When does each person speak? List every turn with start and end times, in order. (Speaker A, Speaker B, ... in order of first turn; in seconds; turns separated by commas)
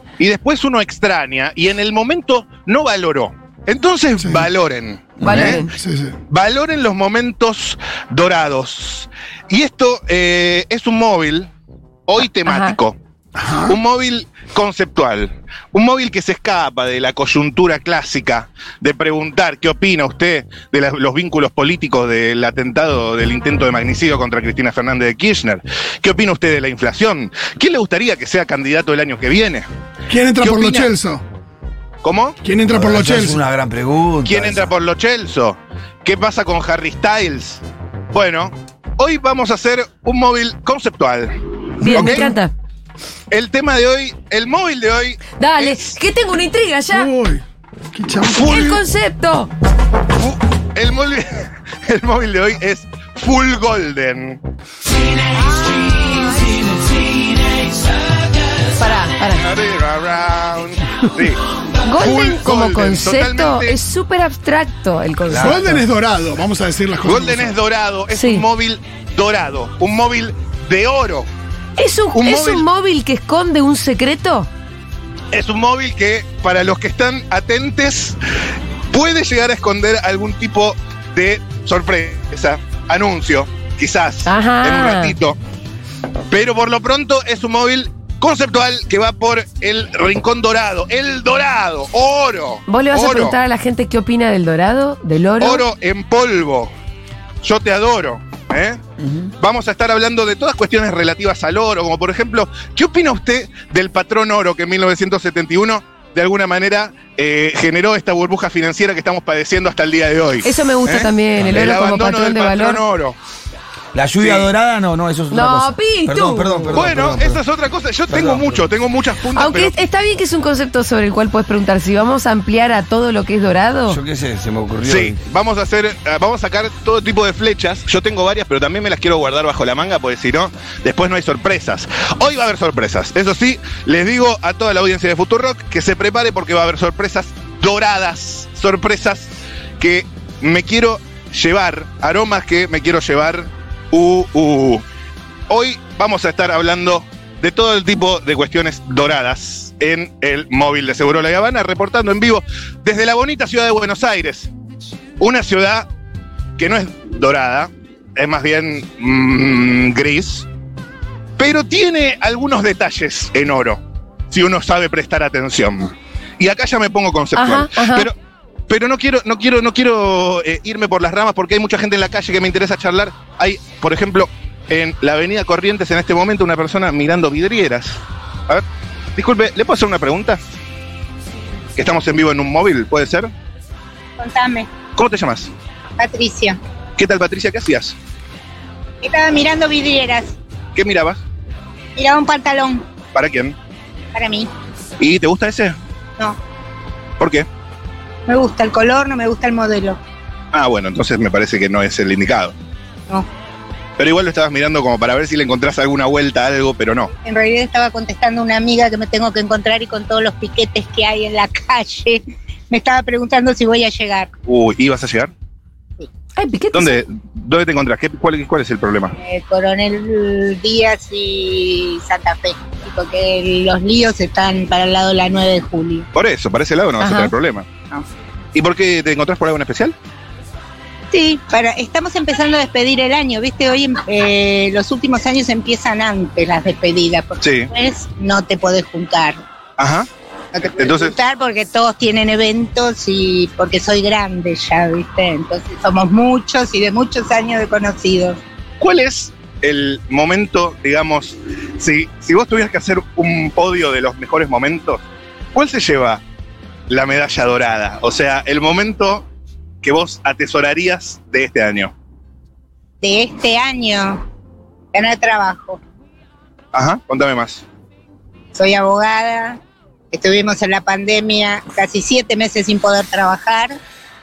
Speaker A: 0.2-5.6, Speaker B: 4.2-4.5, Speaker C: 5.2-5.5, Speaker D: 5.2-5.7, Speaker B: 5.5-6.2, Speaker A: 6.3-11.5, Speaker A: 12.1-13.0, Speaker D: 12.4-12.8, Speaker B: 13.3-13.8, Speaker A: 13.7-29.7, Speaker B: 30.1-31.2, Speaker A: 30.4-30.9, Speaker A: 32.0-32.4, Speaker B: 32.4-33.4, Speaker C: 32.7-34.7, Speaker A: 34.2-37.6, Speaker A: 38.1-41.3, Speaker D: 41.8-42.5, Speaker A: 41.8-42.3, Speaker A: 43.3-46.0, Speaker D: 45.4-47.1, Speaker B: 46.9-47.4, Speaker B: 47.9-48.8, Speaker A: 48.3-48.7, Speaker D: 48.4-49.5, Speaker A: 50.2-54.4, Speaker D: 55.5-56.6, Speaker D: 58.8-59.4, Speaker A: 59.3-61.4, Speaker D: 61.8-65.8, Speaker A: 62.0-63.8, Speaker C: 65.2-65.6, Speaker B: 65.4-67.6, Speaker A: 67.0-71.3, Speaker D: 68.1-68.5, Speaker D: 71.8-74.5, Speaker A: 72.1-72.7, Speaker A: 75.3-78.2, Speaker A: 78.9-85.4, Speaker D: 84.2-85.1, Speaker A: 86.3-93.3, Speaker D: 92.7-95.6, Speaker A: 95.4-96.7, Speaker A: 97.4-98.8, Speaker A: 99.4-113.2, Speaker D: 110.4-112.8, Speaker C: 113.9-117.4, Speaker A: 114.2-114.5, Speaker D: 115.3-116.8, Speaker A: 116.7-119.7, Speaker C: 118.1-118.6, Speaker D: 119.3-124.0, Speaker C: 123.9-125.2, Speaker A: 124.8-144.8, Speaker A: 145.5-154.5, Speaker A: 155.2-155.9, Speaker A: 156.6-160.5, Speaker A: 161.4-168.1, Speaker D: 167.3-168.1, Speaker A: 168.7-178.6, Speaker A: 179.2-180.4, Speaker A: 181.8-183.3, Speaker E: 184.2-184.7, Speaker A: 184.9-185.5, Speaker E: 186.0-186.6, Speaker A: 187.0-187.9, Speaker E: 189.0-190.3, Speaker A: 190.7-191.2, Speaker E: 191.9-192.9, Speaker A: 193.1-193.5, Speaker E: 194.1-194.5, Speaker A: 195.0-195.8, Speaker A: 197.2-197.5, Speaker E: 198.3-200.0, Speaker A: 200.5-202.5, Speaker A: 204.0-207.1, Speaker E: 207.2-214.3, Speaker A: 214.4-215.3, Speaker D: 216.3-217.0, Speaker A: 216.7-219.1, Speaker E: 219.2-226.1, Speaker A: 226.1-227.7, Speaker D: 227.0-227.3, Speaker A: 228.5-229.9, Speaker E: 231.1-239.4, Speaker A: 237.4-237.7, Speaker A: 239.8-240.1, Speaker E: 240.5-248.4, Speaker A: 240.8-241.1, Speaker A: 248.8-255.0, Speaker A: 255.5-256.2, Speaker A: 256.9-259.3, Speaker A: 259.8-261.9, Speaker E: 263.0-264.2, Speaker E: 264.9-265.8, Speaker A: 266.7-267.6, Speaker E: 268.5-269.6, Speaker E: 270.1-273.8